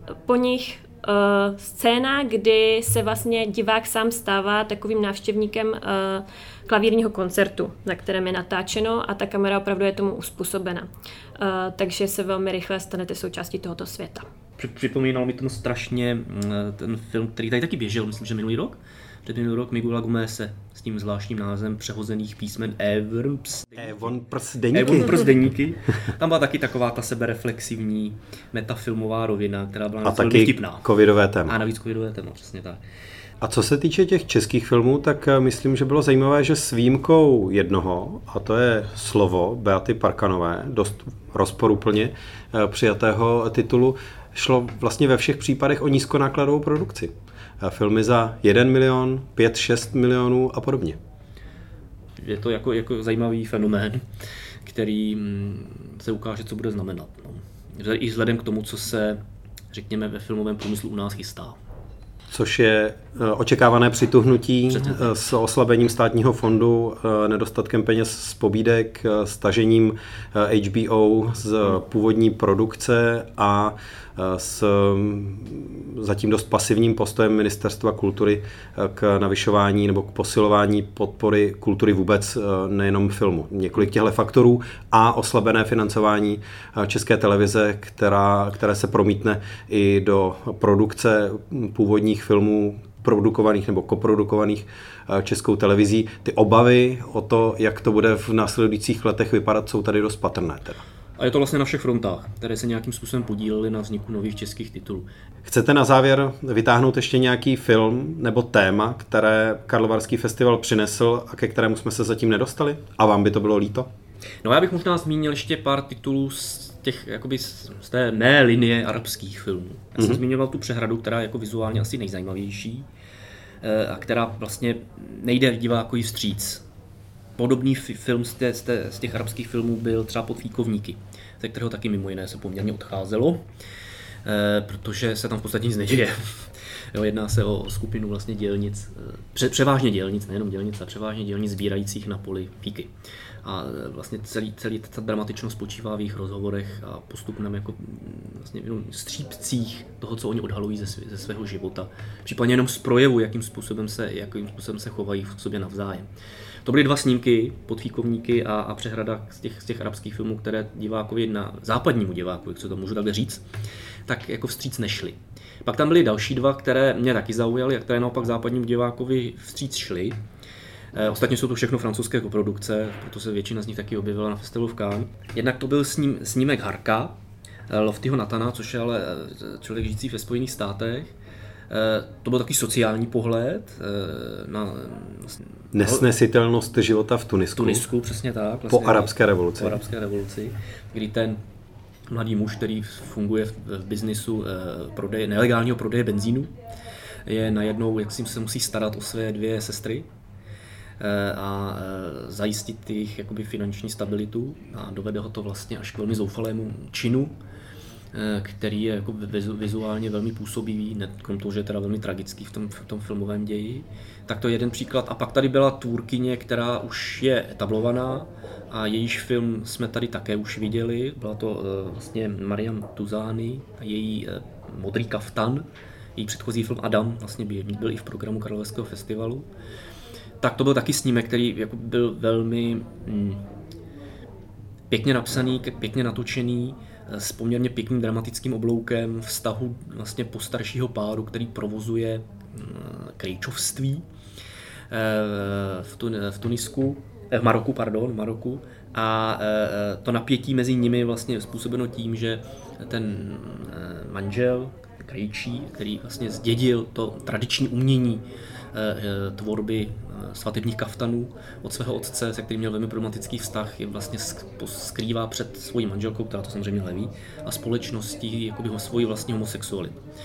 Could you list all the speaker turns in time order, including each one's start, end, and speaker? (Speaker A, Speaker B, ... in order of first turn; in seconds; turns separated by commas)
Speaker A: 0.2-10.9, Speaker A: 11.4-14.2, Speaker B: 14.6-24.2, Speaker C: 23.8-25.3, Speaker B: 24.7-30.8, Speaker C: 30.0-31.6, Speaker B: 31.4-32.8, Speaker C: 33.4-51.0, Speaker B: 52.2-54.0, Speaker B: 54.6-61.6, Speaker C: 62.3-100.8, Speaker B: 64.7-65.0, Speaker B: 101.2-105.1, Speaker C: 105.5-113.9, Speaker B: 114.4-122.9, Speaker B: 123.6-126.6, Speaker B: 127.4-133.4, Speaker B: 134.2-142.9, Speaker B: 143.4-156.1, Speaker B: 156.6-163.4, Speaker B: 164.1-170.2, Speaker B: 170.9-177.2, Speaker B: 177.7-181.1, Speaker B: 181.7-186.0, Speaker C: 185.7-187.8, Speaker B: 187.6-191.4, Speaker C: 188.7-189.8, Speaker B: 192.1-196.5, Speaker B: 197.2-200.1, Speaker B: 201.0-207.3, Speaker B: 208.1-229.5, Speaker B: 230.4-233.4, Speaker B: 234.9-244.0, Speaker B: 244.9-270.0